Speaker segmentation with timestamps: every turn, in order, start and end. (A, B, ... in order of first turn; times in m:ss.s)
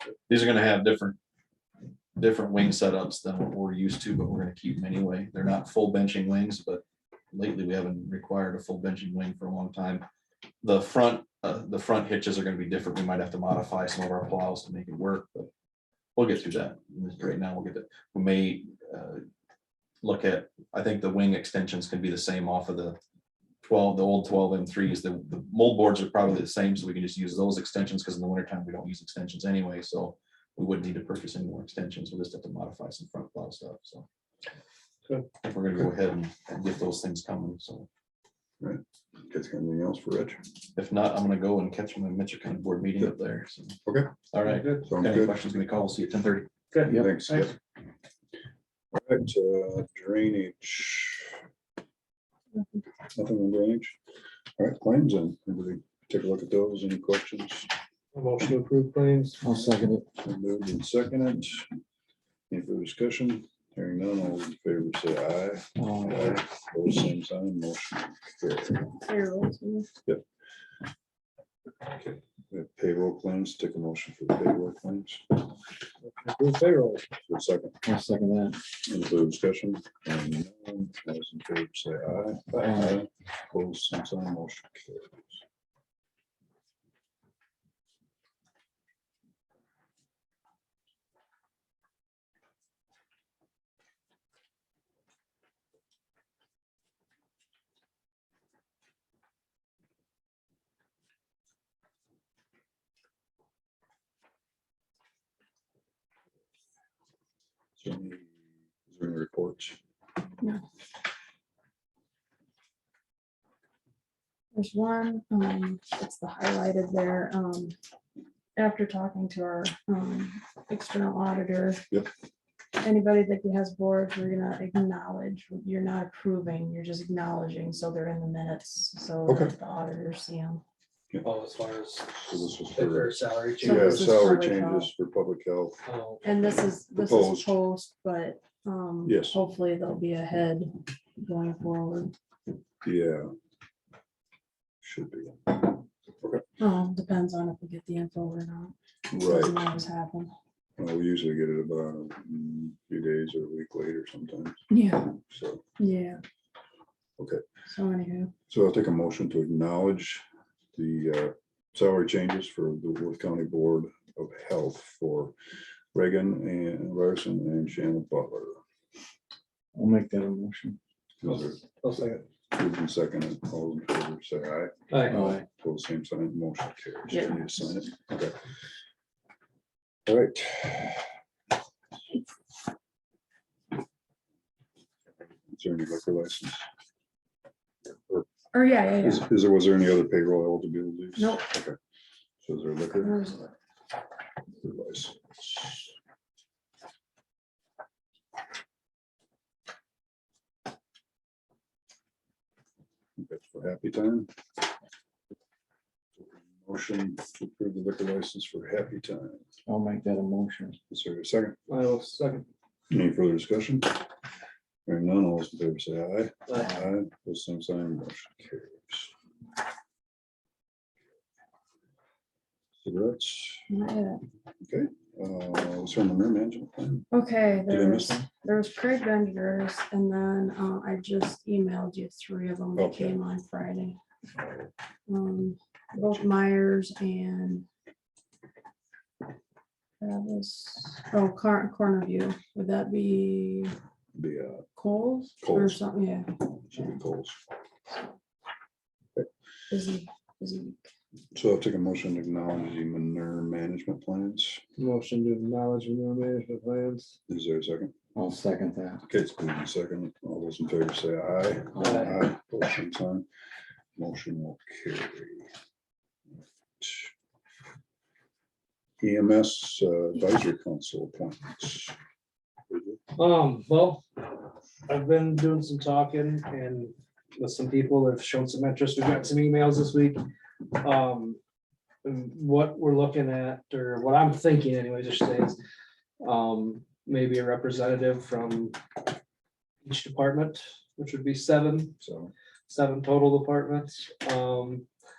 0:00.3-0:01.2 A
0:02.2-0:10.0 A
0:10.6-0:15.5 A
0:16.2-0:19.2 A
0:20.0-0:23.0 A
0:23.6-0:34.0 A
0:35.4-0:37.9 A
0:38.6-0:40.4 B
0:40.8-0:43.8 A
0:43.8-0:44.1 B
0:44.3-0:46.5 A
0:44.4-0:44.8 C
0:44.9-0:45.3 B
0:46.7-0:47.5 C
0:46.8-0:47.5 B
0:48.9-0:51.4 B
0:53.1-0:54.0 B
0:54.6-0:57.7 B
0:58.1-0:59.6 C
0:59.4-1:00.0 D
1:00.2-1:01.7 B
1:02.5-1:09.0 B
1:05.8-1:06.4 D
1:09.0-1:09.9 E
1:11.9-1:15.4 B
1:16.0-1:17.0 C
1:17.3-1:17.8 B
1:17.8-1:18.6 D
1:18.7-1:25.4 B
1:22.6-1:22.9 D
1:47.8-1:48.3 B
1:48.9-1:49.8 B
1:54.5-1:57.8 E
1:58.6-2:01.8 E
2:02.8-2:10.6 E
2:09.2-2:09.5 B
2:11.2-2:14.3 C
2:12.1-2:15.8 B
2:13.6-2:14.9 E
2:15.8-2:16.4 C
2:16.2-2:22.1 E
2:16.9-2:17.5 B
2:19.0-2:19.4 B
2:22.8-2:23.3 B
2:24.8-2:26.4 B
2:26.6-2:30.3 E
2:29.1-2:29.7 B
2:30.8-2:34.6 B
2:34.7-2:35.1 E
2:35.2-2:35.6 B
2:35.8-2:36.2 E
2:37.7-2:38.3 E
2:38.5-2:40.2 B
2:40.7-2:45.3 B
2:45.9-2:48.6 B
2:49.7-2:50.8 D
2:51.2-2:51.6 B
2:51.2-2:52.2 C
2:52.5-2:58.4 B
2:54.9-2:55.2 C
2:55.1-2:55.4 D
2:57.1-2:57.4 E
3:00.1-3:01.0 B
3:05.5-3:06.6 B
3:08.5-3:09.2 E
3:09.0-3:11.8 B
3:11.2-3:11.5 E
3:12.4-3:13.2 B
3:13.0-3:13.5 E
3:14.6-3:15.9 B
3:23.2-3:24.3 B
3:26.2-3:29.4 B
3:29.6-3:30.8 D
3:30.9-3:31.6 B
3:31.7-3:32.4 C
3:32.9-3:34.0 B
3:34.8-3:39.1 B
3:42.8-3:43.7 B
3:43.7-3:44.2 E
3:44.6-3:47.1 B
3:47.1-3:54.0 E
3:47.7-3:48.2 B
3:52.8-3:53.2 B
3:54.4-3:54.7 B
3:55.1-3:57.6 E
4:00.0-4:03.7 E
4:04.1-4:04.7 B
4:04.8-4:06.4 E
4:05.4-4:05.8 B
4:06.7-4:07.4 B
4:09.7-4:10.9 E
4:11.3-4:14.6 B
4:14.8-4:17.1 C
4:17.3-4:17.9 B
4:18.1-4:19.0 D
4:19.0-4:23.2 B
4:21.8-4:22.2 C
4:24.0-4:25.5 B
4:26.8-4:27.1 B
4:29.0-4:32.0 B
4:32.7-4:33.0 B
4:33.2-4:34.0 C
4:34.9-4:41.4 C
4:42.0-4:45.6 C
4:46.2-4:48.8 C
4:49.8-4:52.0 C
4:52.0-4:52.3 B
4:52.7-4:54.8 C